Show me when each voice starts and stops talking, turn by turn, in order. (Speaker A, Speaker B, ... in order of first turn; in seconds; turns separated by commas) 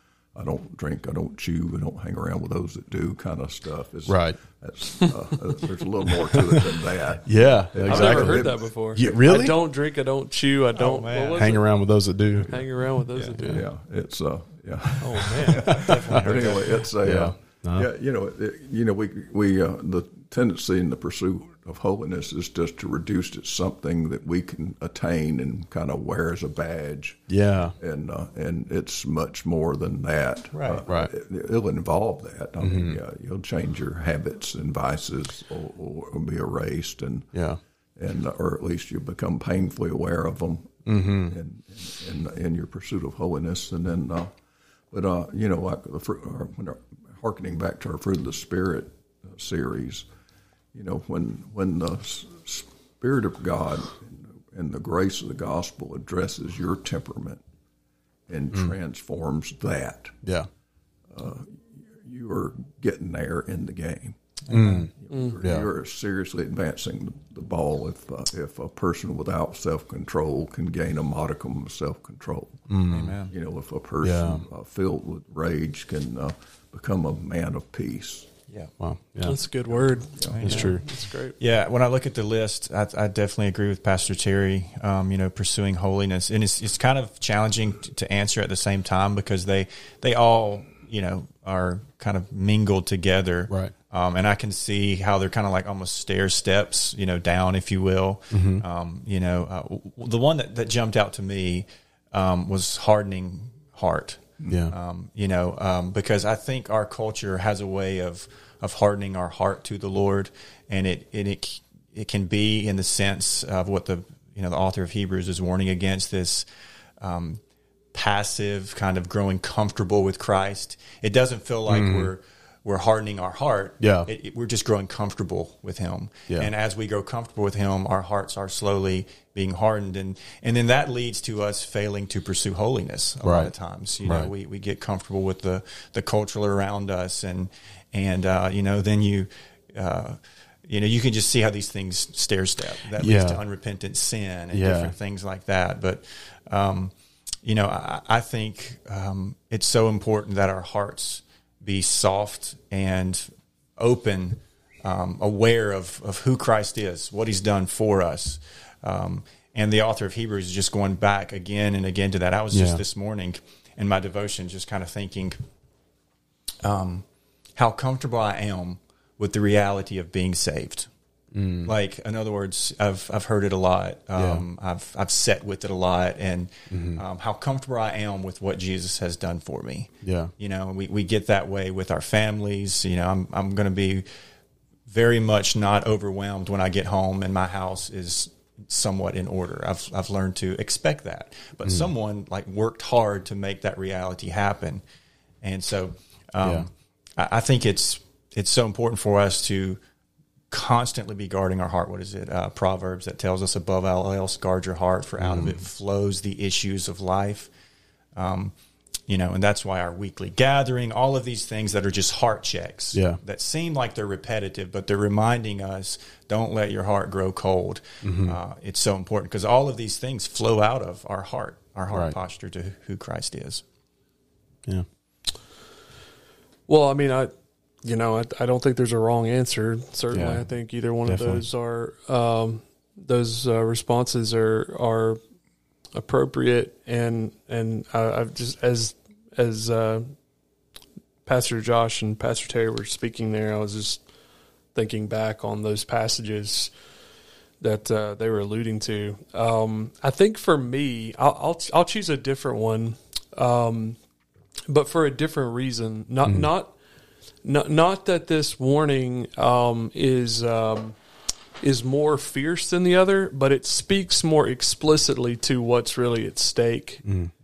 Speaker A: 0.3-8.6, Speaker B: 4.0-4.4, Speaker B: 6.4-9.5, Speaker C: 7.8-11.6, Speaker D: 10.7-11.6, Speaker B: 11.3-12.6, Speaker C: 12.5-13.7, Speaker A: 13.4-37.3, Speaker C: 15.0-15.9, Speaker D: 15.5-16.9, Speaker B: 17.0-17.9, Speaker B: 27.3-27.7, Speaker D: 30.5-30.9, Speaker B: 32.6-33.0, Speaker B: 37.3-37.6, Speaker A: 38.0-44.3, Speaker B: 40.9-41.4, Speaker A: 44.9-50.0, Speaker A: 50.7-57.4, Speaker A: 58.3-60.2, Speaker A: 61.1-72.7, Speaker D: 64.5-64.8, Speaker B: 64.5-65.7, Speaker B: 72.7-73.2, Speaker D: 72.9-73.3, Speaker A: 73.3-78.3, Speaker B: 74.0-74.4, Speaker B: 78.8-79.3, Speaker C: 79.2-81.3, Speaker A: 80.2-80.5, Speaker D: 80.2-116.5, Speaker B: 80.4-80.8, Speaker B: 98.3-98.6, Speaker B: 104.5-104.7, Speaker D: 117.0-117.4, Speaker D: 117.9-146.9, Speaker B: 121.7-122.1, Speaker B: 123.8-124.1, Speaker B: 133.2-133.5, Speaker B: 134.0-134.3, Speaker B: 143.0-143.4, Speaker B: 144.5-144.9, Speaker D: 147.4-165.4, Speaker B: 162.5-162.8, Speaker D: 166.6-170.9, Speaker B: 171.3-171.7, Speaker D: 171.6-184.1, Speaker B: 174.2-174.4, Speaker B: 176.7-177.0, Speaker B: 180.0-180.3, Speaker D: 184.9-194.8, Speaker D: 195.4-199.8, Speaker B: 196.4-196.7, Speaker D: 200.5-207.5, Speaker B: 205.2-205.6, Speaker D: 208.1-208.5, Speaker D: 209.1-223.6, Speaker B: 212.9-213.2, Speaker B: 218.0-218.4, Speaker C: 226.7-227.3, Speaker C: 227.8-235.2, Speaker B: 230.1-230.4, Speaker B: 231.0-231.4, Speaker C: 235.9-240.1, Speaker C: 241.2-244.0, Speaker C: 244.7-246.7, Speaker C: 247.6-254.0, Speaker C: 254.7-256.7, Speaker C: 257.4-261.0, Speaker C: 261.6-267.0, Speaker B: 267.0-267.3